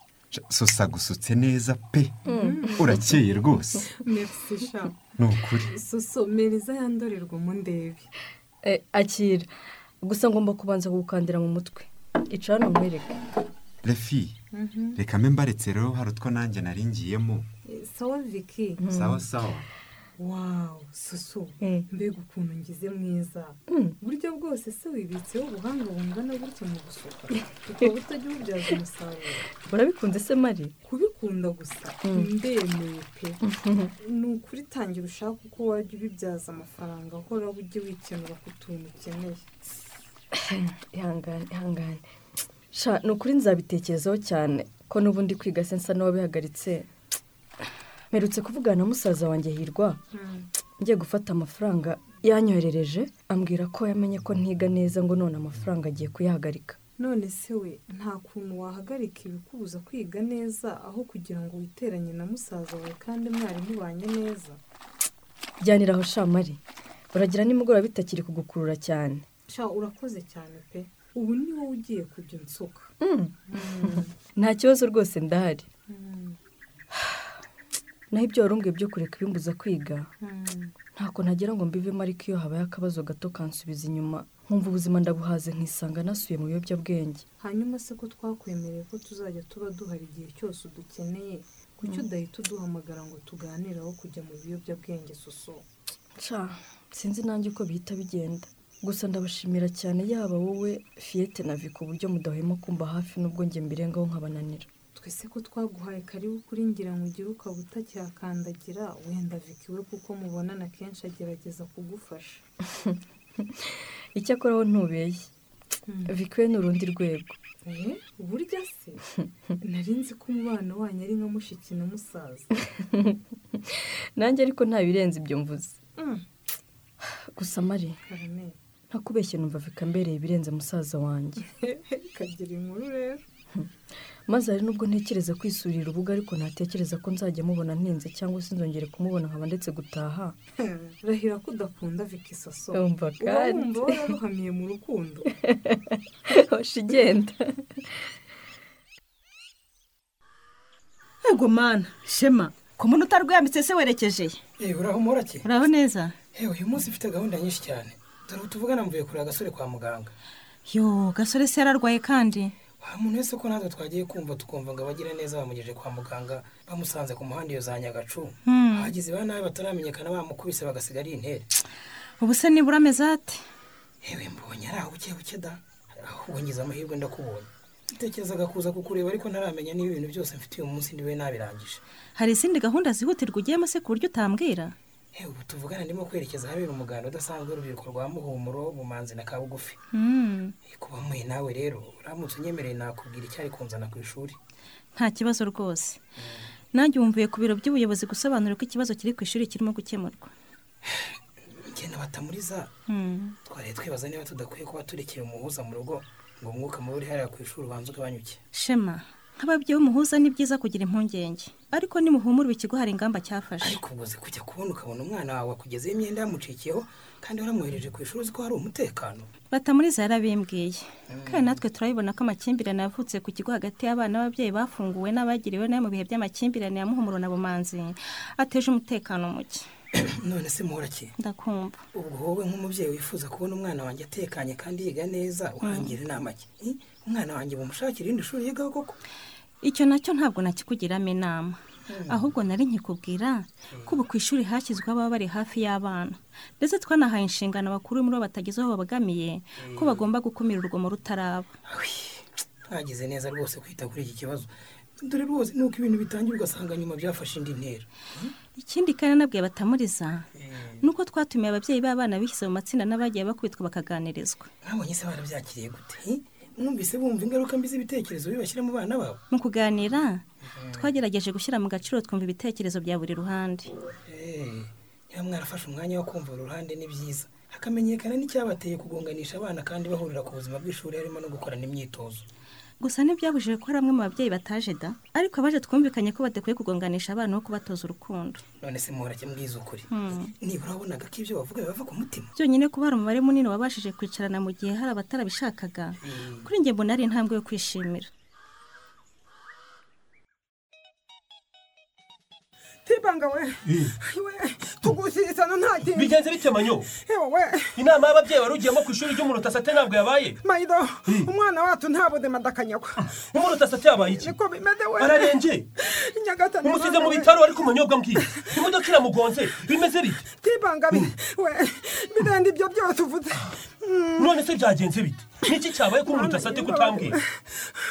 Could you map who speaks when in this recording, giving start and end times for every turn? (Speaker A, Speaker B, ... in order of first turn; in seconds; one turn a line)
Speaker A: 0.3-3.9
Speaker B: 2.3-3.0
Speaker C: 2.3-3.1
Speaker B: 3.9-5.0
Speaker A: 5.2-5.7
Speaker B: 5.7-8.1
Speaker C: 8.6-9.5
Speaker C: 10.0-13.2
Speaker A: 13.8-14.4
Speaker B: 14.5-15.0
Speaker A: 15.0-17.5
Speaker B: 17.7-18.8
Speaker C: 18.8-19.2
Speaker A: 18.9-19.7
Speaker B: 20.2-29.5
Speaker C: 21.6-21.9
Speaker C: 23.7-24.0
Speaker C: 29.6-30.8
Speaker B: 30.9-33.4
Speaker C: 32.0-32.3
Speaker C: 33.4-33.9
Speaker B: 34.0-39.7
Speaker C: 40.4-42.0
Speaker C: 42.7-46.9
Speaker C: 48.1-50.0
Speaker B: 50.1-50.5
Speaker C: 50.8-56.8
Speaker B: 57.0-64.6
Speaker C: 65.6-66.6
Speaker C: 67.1-69.2
Speaker B: 69.5-72.9
Speaker C: 73.0-75.7
Speaker B: 73.5-74.1
Speaker B: 75.9-76.4
Speaker C: 78.1-80.1
Speaker B: 80.2-80.7
Speaker C: 81.0-87.2
Speaker B: 87.4-95.7
Speaker C: 96.2-104.7
Speaker B: 105.0-112.4
Speaker C: 113.4-115.3
Speaker B: 115.9-116.1
Speaker C: 116.1-117.3
Speaker B: 117.7-119.0
Speaker B: 119.6-122.5
Speaker C: 122.8-125.8
Speaker B: 126.0-126.2
Speaker C: 127.4-128.0
Speaker B: 128.1-128.6
Speaker C: 128.9-131.5
Speaker B: 131.6-133.2
Speaker C: 134.3-140.4
Speaker B: 140.7-145.3
Speaker C: 142.7-144.1
Speaker C: 145.4-147.8
Speaker D: 154.6-155.4
Speaker E: 155.4-156.2
Speaker D: 156.3-160.1
Speaker E: 160.7-162.6
Speaker D: 162.8-171.5
Speaker E: 168.5-168.9
Speaker E: 172.2-173.4
Speaker D: 174.0-181.8
Speaker E: 182.2-184.8
Speaker D: 185.1-189.8
Speaker E: 189.9-190.6
Speaker D: 190.7-194.4
Speaker E: 194.9-196.0
Speaker E: 196.7-200.3
Speaker D: 201.7-202.7
Speaker E: 202.9-203.4
Speaker D: 203.4-208.4
Speaker E: 208.5-213.8
Speaker D: 213.6-219.3
Speaker E: 219.5-229.7
Speaker D: 221.1-221.5
Speaker D: 230.0-231.1
Speaker E: 231.2-231.8
Speaker D: 231.9-239.0
Speaker E: 235.6-235.9
Speaker E: 239.6-251.5
Speaker D: 241.9-242.2
Speaker D: 249.6-250.0
Speaker D: 251.7-258.3
Speaker E: 258.6-260.3
Speaker D: 260.4-260.8
Speaker E: 260.8-264.5
Speaker D: 264.6-269.2
Speaker E: 269.3-273.7
Speaker D: 270.6-270.9
Speaker D: 274.1-282.2
Speaker E: 282.8-288.4
Speaker D: 288.6-289.9
Speaker E: 289.9-290.3
Speaker D: 290.4-292.3
Speaker E: 292.4-298.1
Speaker D: 296.0-296.4
Speaker B: 302.9-306.2
Speaker F: 303.7-303.9
Speaker F: 305.9-306.9
Speaker B: 307.1-307.7
Speaker F: 307.8-310.4
Speaker B: 310.4-313.1
Speaker F: 313.3-314.4
Speaker B: 314.2-317.3
Speaker F: 315.0-315.7
Speaker F: 316.6-320.3
Speaker B: 320.3-324.3
Speaker F: 324.2-327.2
Speaker B: 326.1-327.3